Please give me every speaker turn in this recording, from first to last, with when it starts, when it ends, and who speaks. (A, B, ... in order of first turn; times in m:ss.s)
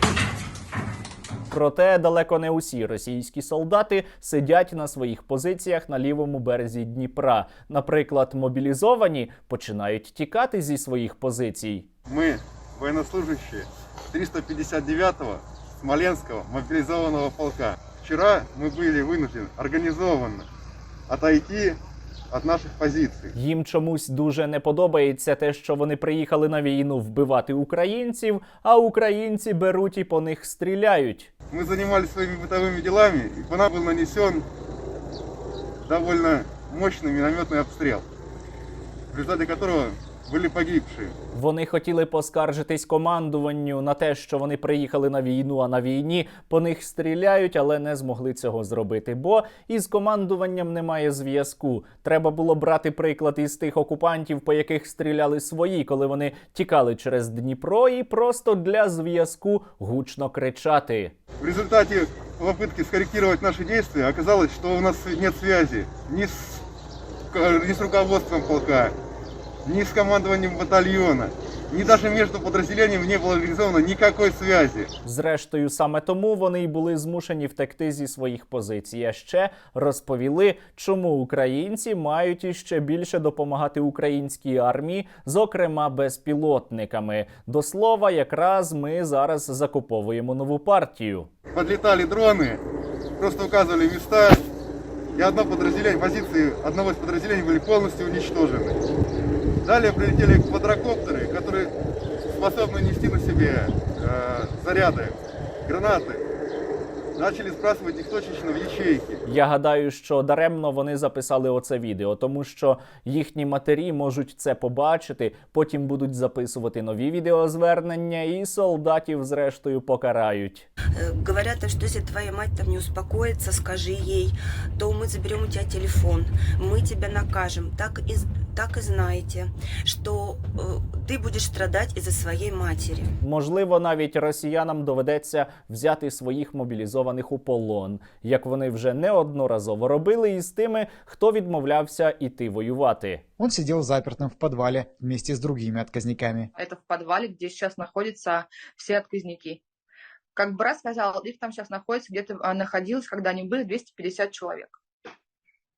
0:01.5-0:11.9 A
0:12.1-0:20.5 B
0:21.1-0:21.8 B
0:22.3-0:23.3 B
0:23.4-0:31.3 A
0:31.5-0:34.4 B
0:35.9-0:38.0 B
0:39.1-0:41.1 B
0:41.3-1:01.1 A
1:01.4-1:06.6 B
1:07.3-1:08.9 B
1:09.7-1:14.9 B
1:15.0-1:31.3 A
1:31.5-1:32.6 B
1:33.2-1:34.4 B
1:35.2-1:38.8 B
1:39.6-1:41.7 B
1:42.4-1:46.2 B
1:47.2-1:49.2 B
1:49.3-2:00.7 A
2:00.9-2:13.1 C
2:13.2-2:23.2 A
2:23.4-2:26.5 D
2:26.6-2:29.6 E
2:30.4-2:34.8 E